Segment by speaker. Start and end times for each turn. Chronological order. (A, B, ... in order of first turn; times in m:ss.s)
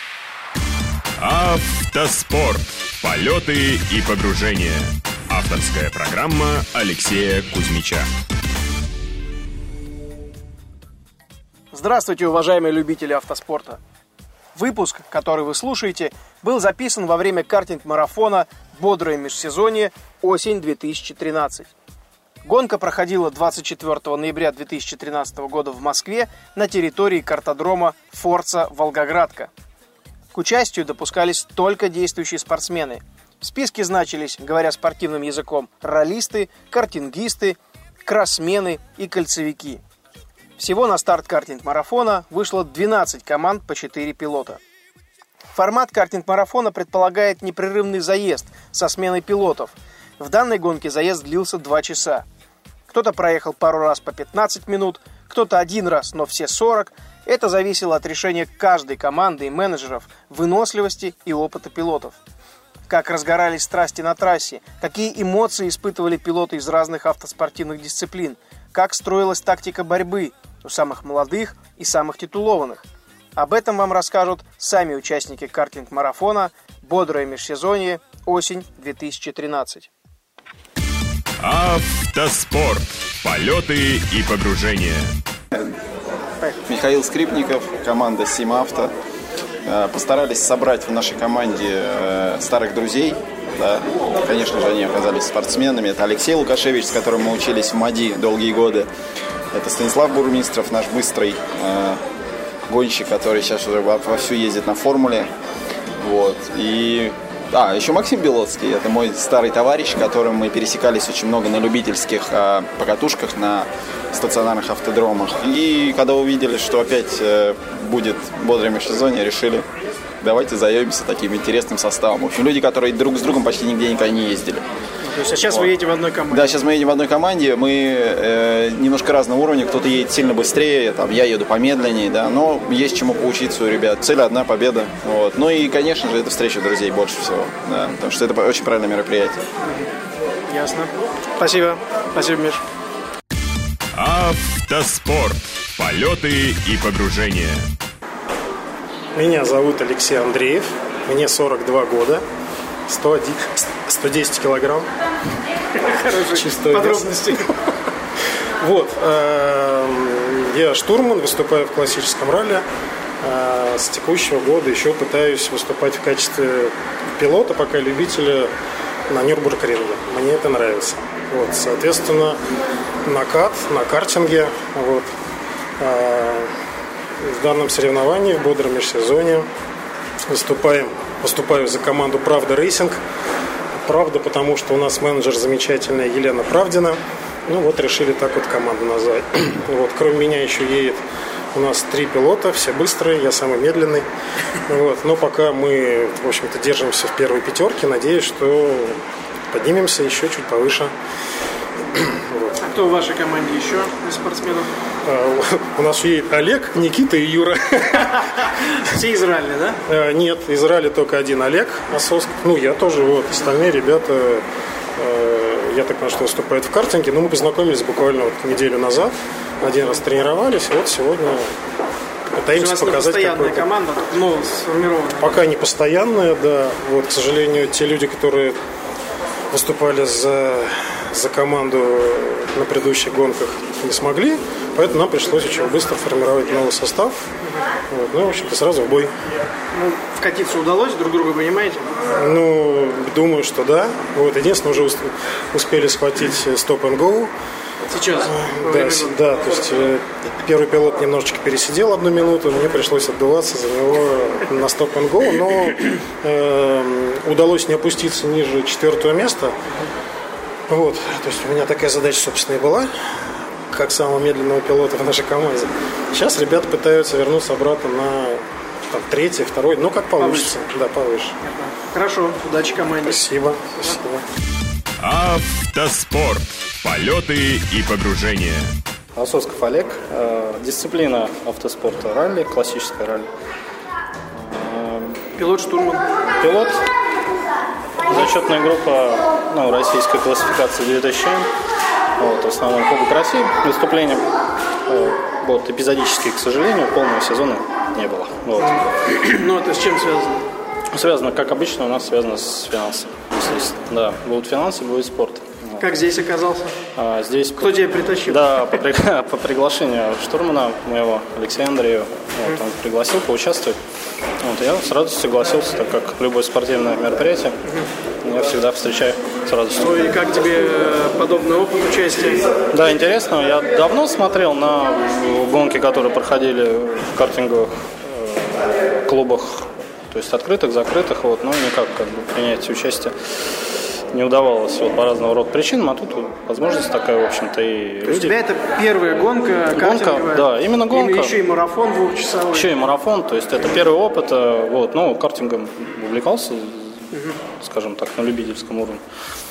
0:01.2-0:08.0 A
0:11.7-0:13.8 B
0:14.6-0:21.7 B
0:22.4-0:29.5 B
0:30.3-0:39.8 B
0:40.6-0:44.6 B
0:45.5-0:52.2 B
0:52.9-1:02.2 B
1:02.9-1:12.8 B
1:13.4-1:19.9 B
1:21.4-1:25.1 A
1:30.4-1:31.8 C
1:34.7-1:38.7 C
1:39.6-1:41.5 C
1:42.8-1:45.1 C
1:46.1-1:46.8 C
1:47.6-1:53.6 C
1:54.2-1:59.5 C
2:00.6-2:04.2 C
2:05.0-2:06.7 B
2:07.2-2:14.7 C
2:16.0-2:17.6 C
2:20.5-2:22.6 B
2:24.0-2:27.6 A
2:29.2-2:32.2 D
2:32.9-2:34.9 D
2:35.8-2:37.4 B
2:36.3-2:37.1 D
2:38.8-2:42.6 D
2:43.2-2:48.5 D
2:49.1-2:52.4 D
2:53.1-2:55.1 D
2:55.8-2:56.5 D
2:57.2-2:59.5 D
3:00.3-3:03.0 D
3:03.8-3:11.0 D
3:11.5-3:14.1 D
3:14.7-3:19.0 D
3:19.5-3:20.9 D
3:22.0-3:22.5 D
3:22.6-3:24.7 B
3:25.1-3:28.1 D
3:29.0-3:29.8 B
3:29.9-3:34.4 D
3:35.0-3:41.5 D
3:42.3-3:43.7 D
3:42.6-3:45.4 B
3:45.2-3:48.6 D
3:49.5-3:57.2 D
3:57.9-3:59.1 D
3:59.7-4:01.9 B
4:02.1-4:07.3 D
4:07.9-4:09.2 B
4:08.3-4:19.5 D
4:20.7-4:22.9 D
4:23.7-4:31.4 D
4:30.2-4:30.5 B
4:31.5-4:33.2 B
4:33.0-4:34.2 D
4:35.0-4:38.7 A
4:39.2-4:43.3 E
4:44.3-4:45.2 E
4:45.4-4:46.0 B
4:46.4-4:46.9 E
4:48.0-4:51.5 E
4:52.2-4:54.3 E
4:54.9-4:58.8 E
4:58.6-5:00.4 B
5:00.9-5:05.9 E
5:05.8-5:06.7 B
5:07.0-5:13.8 E
5:07.6-5:08.4 B
5:14.4-5:17.6 E
5:18.2-5:20.0 E
5:19.8-5:22.4 B
5:22.7-5:33.2 E
5:34.1-5:38.4 E
5:38.0-5:42.7 B
5:39.7-5:41.4 E
5:42.5-5:49.0 E